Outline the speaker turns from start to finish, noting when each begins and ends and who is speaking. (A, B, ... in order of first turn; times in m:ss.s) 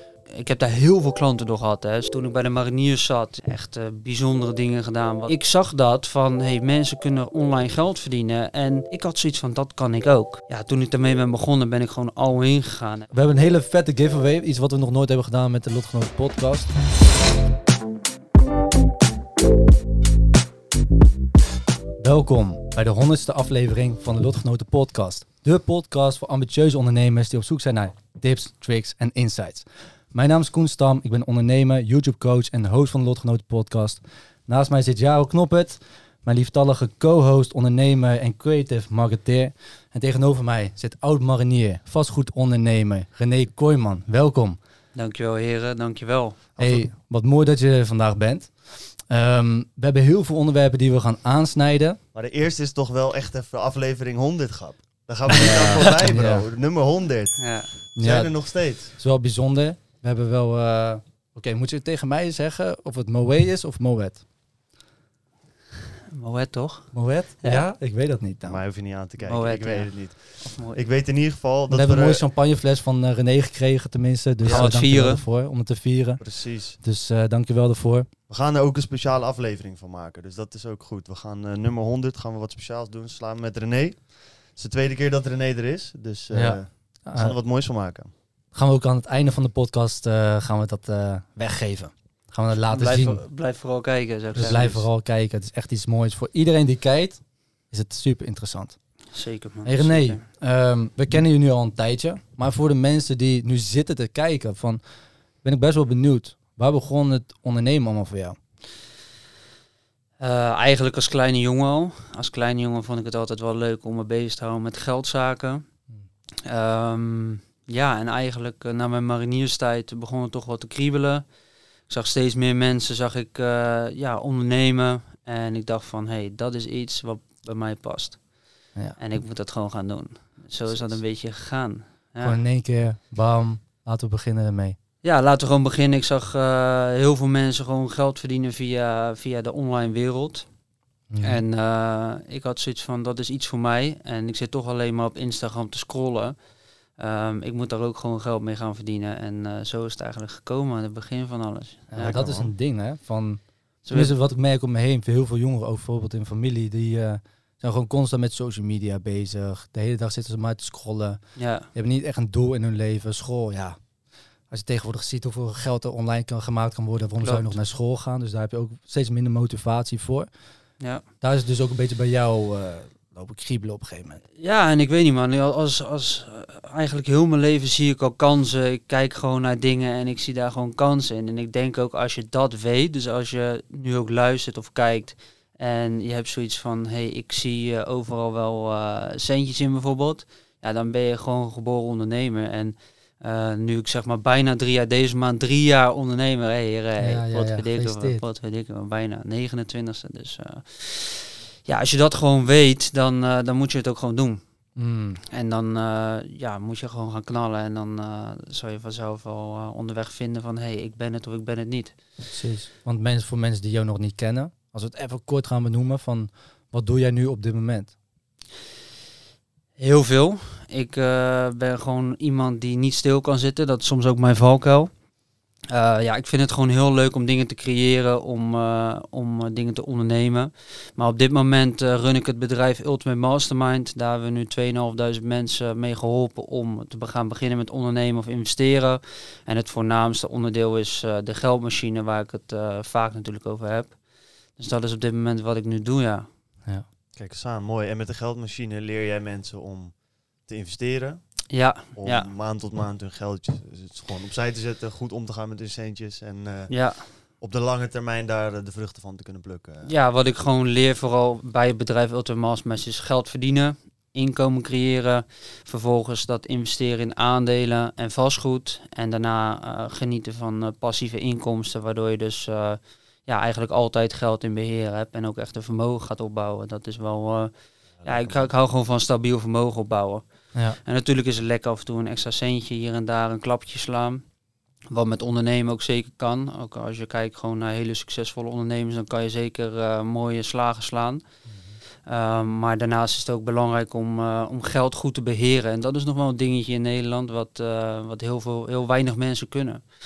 0:00.3-0:13.1 A
0:13.1-0:16.7 B
0:22.0-0:44.6 B
0:45.0-0:46.4 A
0:46.6-0:46.8 C
0:46.6-0:52.0 B
0:52.1-0:58.9 C
0:55.3-0:56.4 B
0:57.4-0:57.7 A
0:58.0-1:04.2 B
1:06.1-1:07.6 A
1:06.9-1:08.6 B
1:08.5-1:12.2 C
1:09.2-1:10.8 A
1:11.7-1:18.1 B
1:14.4-1:15.2 A
1:14.5-1:14.8 C
1:16.2-1:16.8 C
1:18.3-1:28.1 C
1:26.3-1:27.4 B
1:28.5-1:33.2 B
1:32.7-1:34.8 A
1:34.3-1:38.8 B
1:34.4-1:34.8 C
1:39.1-1:40.2 A
1:39.6-1:44.8 B
1:45.4-1:48.4 B
1:50.2-1:55.6 A
1:56.5-2:01.2 A
2:01.9-2:08.3 A
2:09.0-2:12.4 A
2:10.7-2:11.0 B
2:12.2-2:14.8 B
2:15.0-2:20.5 A
2:21.1-2:21.4 B
2:21.2-2:26.4 A
2:27.0-2:32.2 A
2:31.9-2:43.8 B
2:32.0-2:32.5 C
2:33.8-2:34.1 A
2:41.4-2:41.7 A
2:44.5-2:50.3 B
2:47.2-2:47.5 A
2:51.2-2:54.2 B
2:54.4-3:24.4 A
3:17.0-3:18.2 B
3:24.8-3:25.2 B
3:25.3-3:32.0 A
3:32.3-3:38.0 B
3:39.8-3:44.9 A
3:45.7-4:04.0 A
4:04.6-4:06.3 A
4:07.2-4:19.9 C
4:11.5-4:12.3 A
4:16.7-4:17.1 A
4:19.8-4:37.5 A
4:38.0-4:38.5 C
4:38.0-4:40.2 A
4:40.8-4:44.2 A
4:44.9-4:51.2 A
4:51.5-4:51.8 B
4:52.0-4:59.8 A